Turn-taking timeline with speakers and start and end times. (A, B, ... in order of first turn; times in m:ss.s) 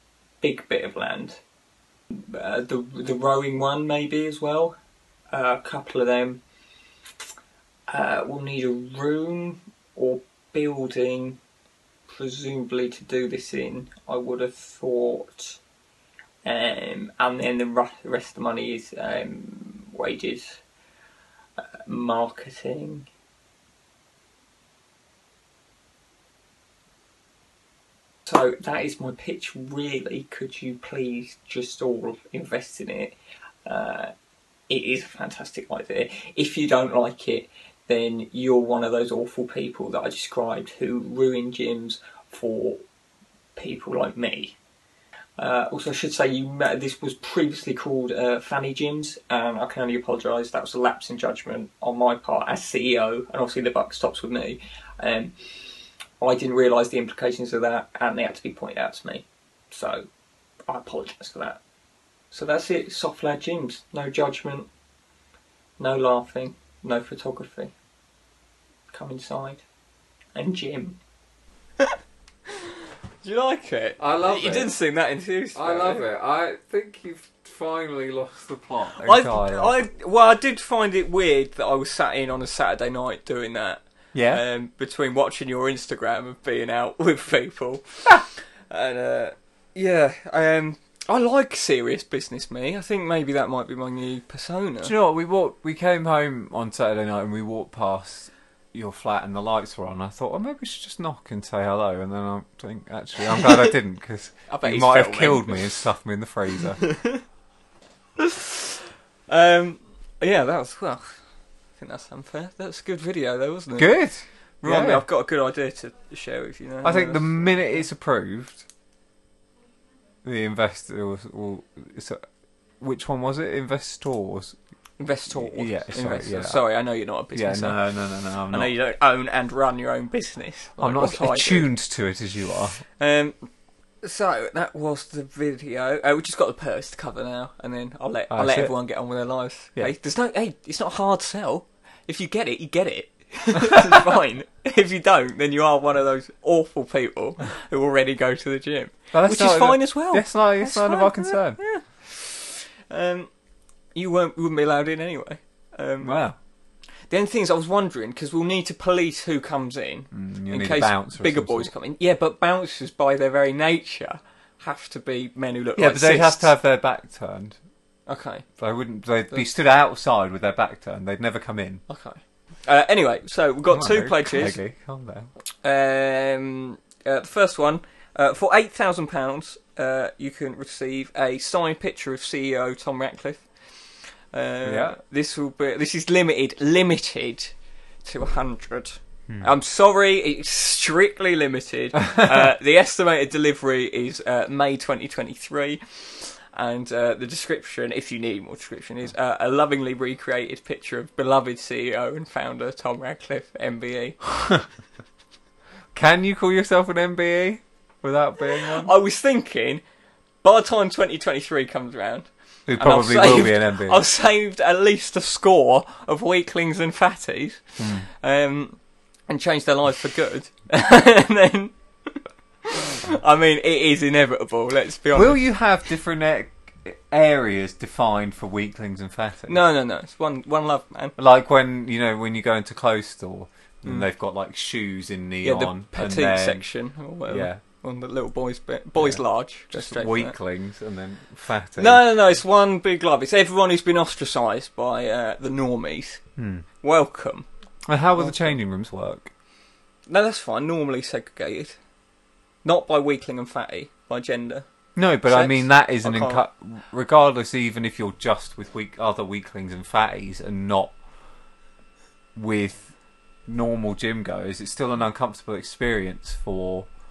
0:00.4-0:01.4 A
0:02.1-0:04.8 A
0:05.3-0:06.4 A
0:07.9-0:11.4 A
0:12.1-0:15.6 A
0:16.4-0:20.6 A
0:21.9-0:23.1 A
0:28.3-0:34.1 A
0:34.7-0:42.8 A
0:43.6-0:44.6 A
0:45.4-0:55.3 A
0:56.2-1:00.1 A
1:00.7-1:01.6 A
1:02.3-1:04.7 A
1:05.8-1:07.7 A
1:08.9-1:09.6 A
1:10.4-1:11.0 A
1:13.2-1:16.1 A
1:14.0-1:14.7 B
1:15.6-1:19.8 B
1:19.0-1:34.9 A
1:24.1-1:24.4 B
1:34.8-1:46.8 B
1:43.4-1:43.7 A
1:44.5-1:45.7 A
1:46.8-1:47.2 A
1:48.2-1:48.8 A
1:49.3-1:51.2 A
1:51.8-1:54.0 A
1:53.8-1:55.1 B
1:54.6-1:57.8 A
1:56.8-1:58.7 B
2:00.2-2:02.2 B
2:02.8-2:04.6 B
2:05.0-2:07.8 A
2:05.3-2:06.7 B
2:07.3-2:08.7 B
2:08.5-2:11.7 A
2:10.8-2:12.8 B
2:13.0-2:13.4 A
2:14.0-2:33.3 A
2:18.3-2:18.8 B
2:29.1-2:31.6 B
2:34.0-2:36.2 A
2:36.0-2:36.4 B
2:37.1-2:46.5 A
2:40.1-2:41.7 B
2:45.8-2:47.6 B
2:48.1-2:48.4 A
2:48.6-2:51.8 B
2:51.9-2:54.6 A
2:53.7-2:55.3 B
2:55.6-3:03.4 A
3:04.3-3:07.5 A
3:04.6-3:05.0 B
3:08.0-3:24.2 A
3:24.4-3:24.6 B
3:25.9-3:28.9 B
3:28.7-3:29.8 A
3:30.4-3:38.8 A
3:32.7-3:34.0 B
3:37.8-3:38.1 B
3:39.3-3:45.5 A
3:45.1-3:49.6 B
3:49.5-3:51.2 A
3:51.2-3:56.6 B
3:55.4-4:00.4 A
3:57.3-3:57.6 B
3:59.0-4:02.1 B
4:01.8-4:06.2 A
4:06.4-4:06.7 B
4:06.8-4:07.5 A
4:07.9-4:09.3 B
4:08.2-4:08.6 A
4:10.1-4:11.8 A
4:12.6-4:14.6 A
4:15.0-4:21.0 B
4:15.2-4:16.4 A
4:22.4-4:22.9 B
4:23.5-4:26.9 B